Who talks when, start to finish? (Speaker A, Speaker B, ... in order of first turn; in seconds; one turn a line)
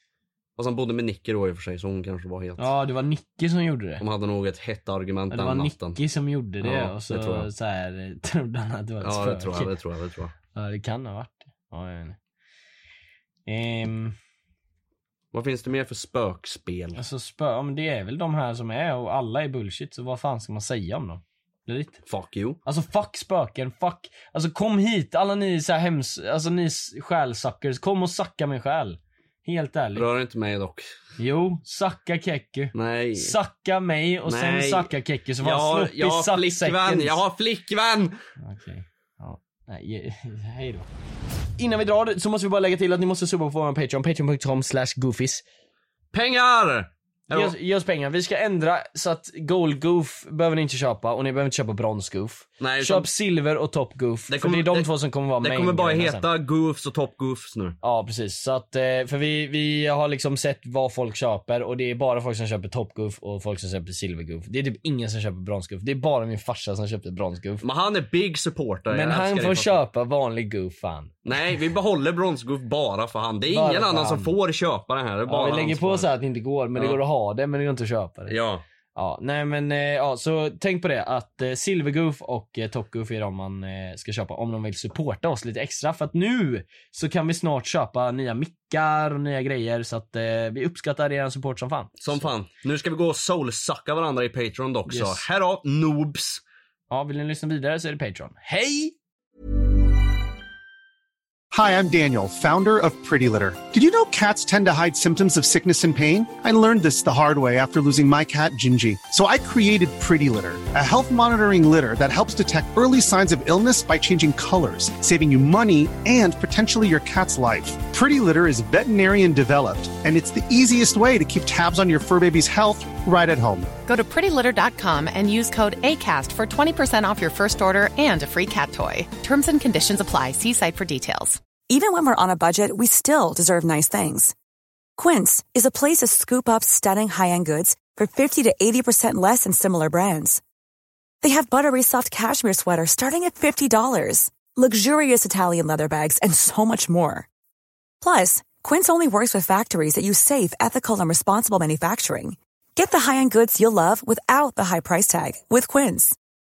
Speaker A: 0.6-2.7
Speaker B: 2.6-4.0
Speaker A: 4.0-6.0
Speaker B: 5.3-9.7
Speaker A: 6.6-7.5
Speaker A: 9.0-10.3
Speaker B: 10.5-12.2
Speaker B: 13.5-14.2
Speaker A: 15.3-17.0
Speaker B: 17.0-22.0
Speaker A: 22.1-22.6
Speaker B: 22.7-30.1
Speaker A: 29.9-30.9
Speaker B: 31.2-37.2
Speaker A: 32.7-33.4
Speaker A: 34.3-34.9
Speaker A: 35.4-38.1
Speaker B: 38.4-40.9
Speaker B: 41.6-45.4
Speaker A: 46.1-47.5
Speaker B: 47.3-56.3
Speaker A: 52.6-53.1
Speaker A: 54.3-54.9
Speaker A: 55.4-57.8
Speaker B: 57.8-67.6
Speaker A: 67.6-69.8
Speaker B: 68.9-71.2
Speaker A: 71.2-76.1
Speaker B: 73.5-74.3
Speaker B: 75.3-78.3
Speaker A: 78.3-78.6
Speaker B: 79.0-92.2
Speaker A: 92.0-96.4
Speaker B: 94.9-95.2
Speaker B: 96.9-99.0
Speaker C: 101.5-123.7
Speaker D: 123.9-131.4
Speaker E: 131.7-134.3
Speaker E: 135.0-140.4
Speaker E: 141.2-147.3
Speaker E: 148.0-156.2